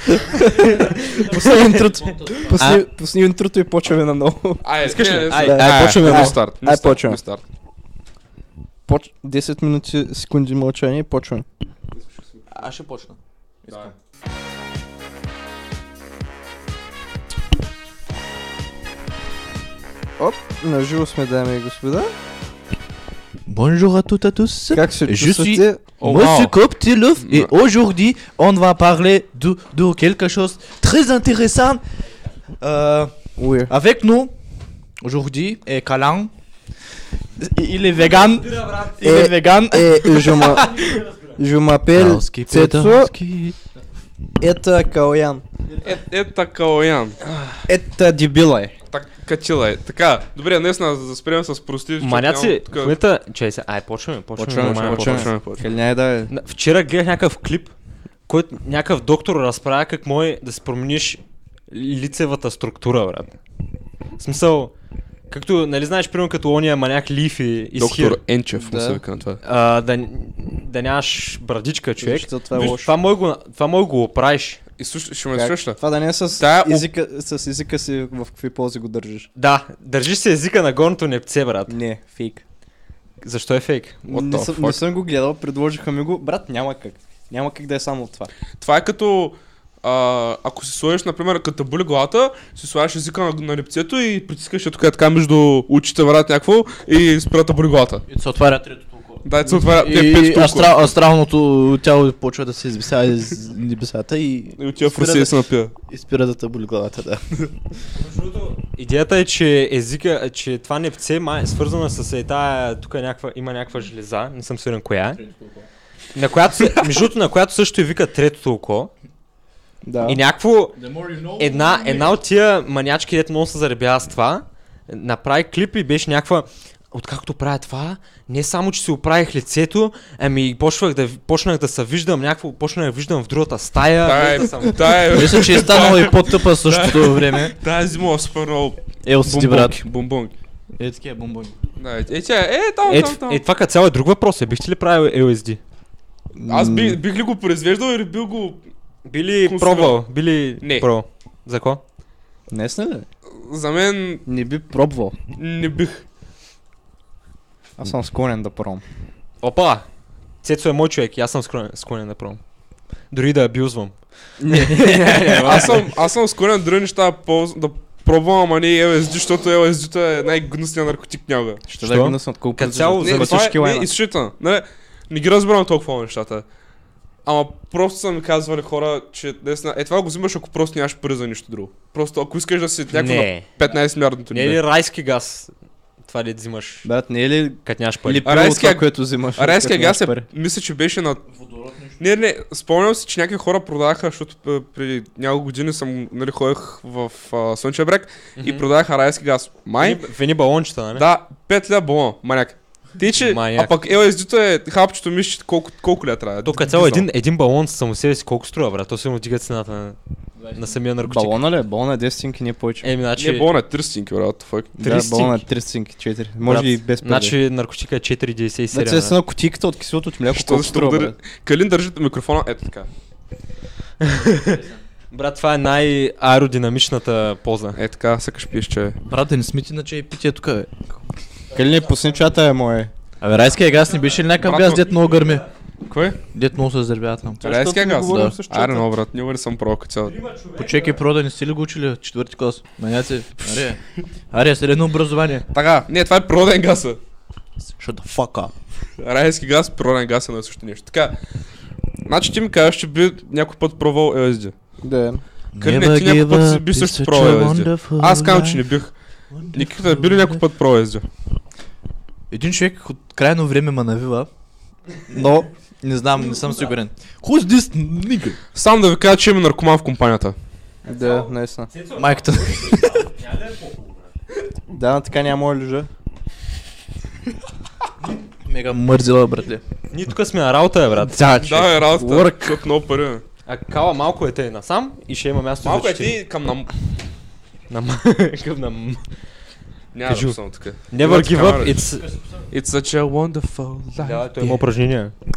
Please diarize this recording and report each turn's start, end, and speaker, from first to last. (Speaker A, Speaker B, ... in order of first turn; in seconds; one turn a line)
Speaker A: 0.3-2.0
Speaker B: 0.3-7.2
Speaker C: 1.1-2.8
Speaker A: 2.5-2.8
Speaker D: 4.6-7.4
Speaker A: 4.8-6.3
Speaker B: 8.9-11.4
Speaker D: 11.9-12.7
Speaker C: 12.5-13.9
Speaker B: 20.2-22.1
Speaker C: 23.5-31.8
Speaker B: 24.7-25.8
Speaker D: 26.0-26.6
Speaker D: 27.2-27.5
Speaker C: 32.6-33.1
Speaker B: 33.4-33.7
Speaker C: 33.6-34.3
Speaker C: 35.0-36.3
Speaker C: 37.4-40.6
Speaker A: 38.0-39.1
Speaker B: 39.0-43.1
Speaker A: 40.5-41.4
Speaker C: 41.9-43.5
Speaker B: 44.4-45.4
Speaker D: 45.8-47.2
Speaker A: 47.3-47.6
Speaker B: 47.6-48.7
Speaker D: 48.9-53.0
Speaker A: 52.0-55.3
Speaker B: 54.4-56.3
Speaker D: 54.5-55.7
Speaker A: 56.3-57.7
Speaker A: 58.3-63.4
Speaker A: 64.2-64.7
Speaker A: 65.3-68.2
Speaker D: 67.8-69.4
Speaker B: 68.6-69.0
Speaker A: 69.4-74.6
Speaker B: 72.0-72.9
Speaker D: 72.5-72.8
Speaker D: 74.8-75.8
Speaker B: 75.3-79.3
Speaker D: 76.4-76.9
Speaker A: 79.3-81.8
Speaker B: 81.7-82.4
Speaker A: 83.2-84.8
Speaker B: 84.1-88.3
Speaker D: 88.6-98.0
Speaker C: 98.1-105.3
Speaker D: 99.2-100.9
Speaker D: 104.6-105.7
Speaker C: 105.9-107.2
Speaker A: 107.9-115.2
Speaker C: 115.1-115.7
Speaker A: 116.1-118.9
Speaker B: 119.8-120.2
Speaker A: 120.0-120.8
Speaker C: 120.8-122.2
Speaker A: 121.4-135.0
Speaker D: 134.0-140.3
Speaker C: 135.1-137.6
Speaker C: 139.0-139.8
Speaker C: 140.8-141.5
Speaker D: 141.8-143.4
Speaker A: 142.9-145.6
Speaker B: 146.3-147.0
Speaker D: 146.5-148.6
Speaker A: 149.1-151.8
Speaker D: 149.4-150.0
Speaker D: 150.6-150.9
Speaker B: 152.5-153.1
Speaker D: 153.4-154.2
Speaker B: 154.2-155.2
Speaker D: 155.4-156.0
Speaker B: 157.8-158.8
Speaker A: 159.4-159.8
Speaker A: 160.4-162.4
Speaker A: 163.1-164.0
Speaker B: 164.4-165.9
Speaker A: 164.5-165.8
Speaker D: 165.3-171.6
Speaker B: 171.7-173.9
Speaker A: 171.8-173.5
Speaker D: 173.0-176.4
Speaker D: 177.2-184.6
Speaker A: 182.9-183.5
Speaker A: 184.3-185.5
Speaker A: 186.0-186.9
Speaker B: 186.8-190.2
Speaker A: 187.6-188.3
Speaker D: 188.2-191.2
Speaker C: 191.3-192.0
Speaker D: 192.0-200.0
Speaker A: 198.4-198.7
Speaker A: 199.8-201.1
Speaker D: 200.9-207.0
Speaker A: 203.2-203.7
Speaker A: 206.4-210.0
Speaker B: 206.6-207.0
Speaker C: 210.4-210.7
Speaker A: 210.5-211.4
Speaker B: 211.1-212.9
Speaker A: 212.8-213.5
Speaker D: 213.2-215.3
Speaker B: 214.8-217.4
Speaker A: 215.0-215.3
Speaker A: 216.4-219.2
Speaker B: 218.7-221.2
Speaker D: 220.3-222.9
Speaker A: 224.0-224.6
Speaker C: 224.4-224.8
Speaker A: 225.1-227.8
Speaker D: 227.8-229.0
Speaker C: 229.1-231.0
Speaker B: 231.5-232.9
Speaker A: 231.5-232.2
Speaker C: 233.2-235.4
Speaker D: 234.4-235.0
Speaker A: 235.2-235.4
Speaker D: 235.9-236.2
Speaker C: 236.3-238.4
Speaker D: 237.4-240.1
Speaker A: 240.0-241.0
Speaker C: 240.6-245.5
Speaker D: 245.5-247.0
Speaker C: 247.7-248.5
Speaker D: 249.0-251.2
Speaker D: 252.1-254.5
Speaker B: 254.8-255.2
Speaker C: 255.5-258.6
Speaker D: 255.6-258.9
Speaker C: 259.3-260.4
Speaker D: 259.5-261.0
Speaker C: 262.3-264.3
Speaker C: 265.1-268.4
Speaker D: 268.5-270.4
Speaker B: 270.9-271.7
Speaker A: 270.9-274.1
Speaker C: 271.9-273.1
Speaker B: 274.7-275.9
Speaker C: 278.4-279.6
Speaker A: 279.9-281.3
Speaker B: 281.0-282.6
Speaker D: 281.4-283.2
Speaker A: 283.4-286.2
Speaker D: 285.6-286.7
Speaker A: 287.7-289.0
Speaker D: 289.9-291.9
Speaker A: 290.0-290.4
Speaker A: 290.9-292.0
Speaker C: 292.0-292.4
Speaker D: 292.5-294.3
Speaker A: 294.0-295.1